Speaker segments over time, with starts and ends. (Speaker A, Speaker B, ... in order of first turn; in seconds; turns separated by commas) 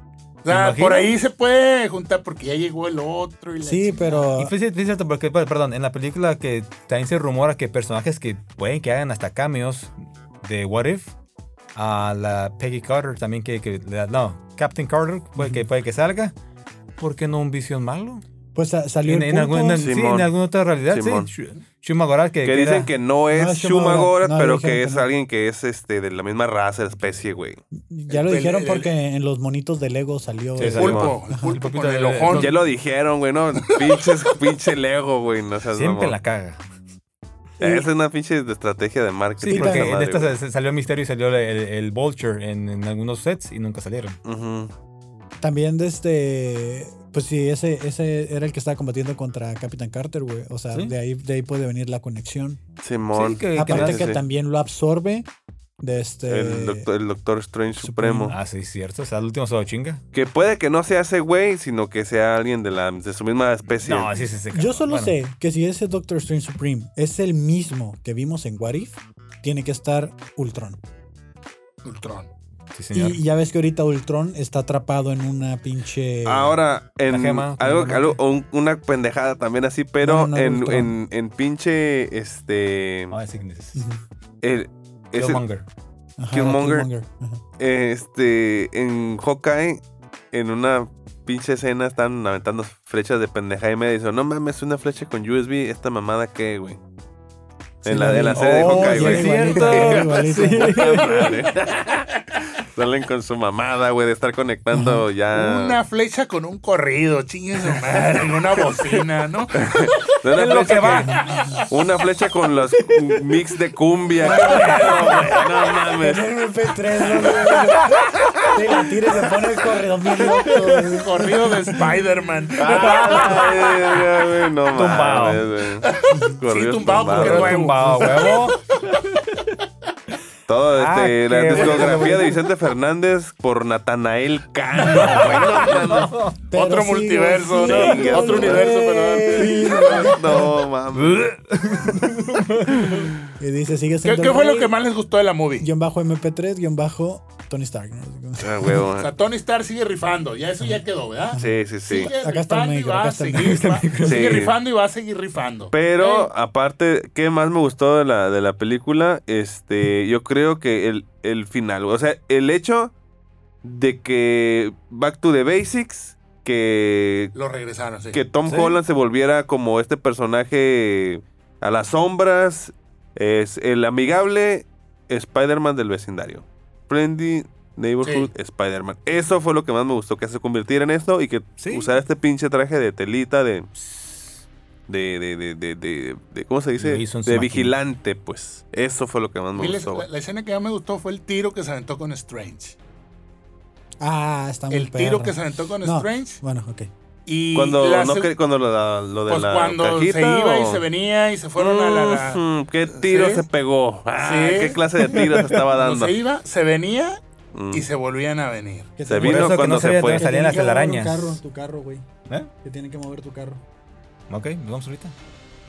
Speaker A: 0.4-4.3, Speaker B: 0.5-1.1, Speaker C: 3.6-4.5, Speaker B: 4.4-11.1, Speaker B: 11.8-16.4, Speaker C: 15.4-15.6, Speaker B: 17.0-18.2, Speaker C: 18.6-19.9, Speaker B: 19.1-22.9, Speaker D: 19.8-20.3, Speaker D: 20.9-21.3, Speaker D: 22.4-27.6, Speaker C: 23.3-25.1, Speaker C: 27.7-31.5, Speaker A: 28.1-28.9, Speaker B: 30.6-32.6, Speaker A: 30.6-32.5, Speaker D: 30.8-31.2, Speaker D: 32.3-36.1, Speaker A: 33.9-34.4, Speaker B: 35.8-36.6, Speaker D: 37.6-40.3, Speaker C: 37.6-37.9, Speaker B: 39.4-44.2, Speaker C: 39.5-39.9, Speaker D: 44.2-44.7, Speaker C: 45.4-52.6, Speaker D: 52.8-54.2, Speaker B: 53.1-54.1, Speaker C: 53.5-55.3, Speaker C: 55.8-56.9, Speaker D: 56.3-58.4, Speaker C: 57.8-58.4, Speaker B: 58.3-60.0, Speaker D: 60.1-64.2, Speaker B: 63.8-65.2, Speaker C: 64.5-70.8, Speaker A: 71.8-72.3, Speaker B: 72.7-73.2, Speaker C: 72.9-76.6, Speaker D: 76.3-83.2, Speaker B: 77.1-78.2, Speaker C: 80.0-81.0, Speaker B: 83.1-83.8, Speaker C: 83.8-84.0, Speaker D: 84.4-85.4, Speaker B: 85.1-85.6, Speaker C: 86.2-87.4, Speaker D: 86.3-86.9, Speaker D: 87.6-96.8, Speaker D: 97.8-100.2, Speaker C: 97.8-101.1, Speaker B: 98.3-101.2, Speaker D: 100.8-102.1, Speaker D: 102.6-105.8, Speaker C: 104.7-105.1, Speaker A: 105.3-109.9, Speaker D: 109.6-116.2, Speaker B: 110.3-111.2, Speaker C: 111.0-111.6, Speaker A: 111.3-111.6, Speaker C: 114.2-122.0, Speaker B: 117.6-118.0, Speaker B: 120.4-121.0, Speaker A: 120.8-124.0, Speaker D: 122.6-127.7, Speaker B: 122.8-123.4, Speaker B: 124.7-125.5, Speaker A: 125.8-128.6, Speaker B: 127.2-129.5, Speaker C: 127.8-128.3, Speaker D: 130.5-136.2, Speaker B: 130.7-132.3, Speaker B: 134.9-136.4, Speaker C: 136.5-140.6, Speaker A: 136.5-140.2, Speaker D: 137.6-141.3, Speaker B: 140.9-143.1, Speaker C: 143.4-144.7, Speaker A: 144.0-145.7, Speaker C: 145.6-148.9, Speaker D: 148.4-149.1, Speaker A: 149.0-156.3, Speaker D: 151.4-152.1, Speaker C: 152.2-154.0, Speaker B: 153.6-154.4, Speaker D: 154.0-154.5, Speaker D: 155.7-162.9, Speaker D: 163.6-167.3, Speaker A: 167.3-168.2, Speaker D: 168.1-183.7, Speaker B: 168.5-168.8, Speaker A: 178.0-178.3, Speaker B: 181.6-181.9, Speaker B: 183.8-184.3, Speaker D: 184.9-190.1, Speaker B: 186.8-187.8, Speaker A: 189.6-192.8, Speaker C: 194.0-196.9, Speaker A: 194.7-196.4, Speaker A: 197.3-198.3, Speaker D: 197.6-200.8, Speaker A: 199.3-203.5, Speaker D: 201.6-206.1, Speaker A: 204.2-207.2, Speaker B: 205.1-205.6, Speaker D: 207.5-207.8, Speaker A: 207.7-208.9, Speaker C: 209.0-212.1, Speaker D: 209.1-210.2, Speaker B: 209.2-211.4, Speaker C: 212.6-213.6, Speaker B: 214.3-215.1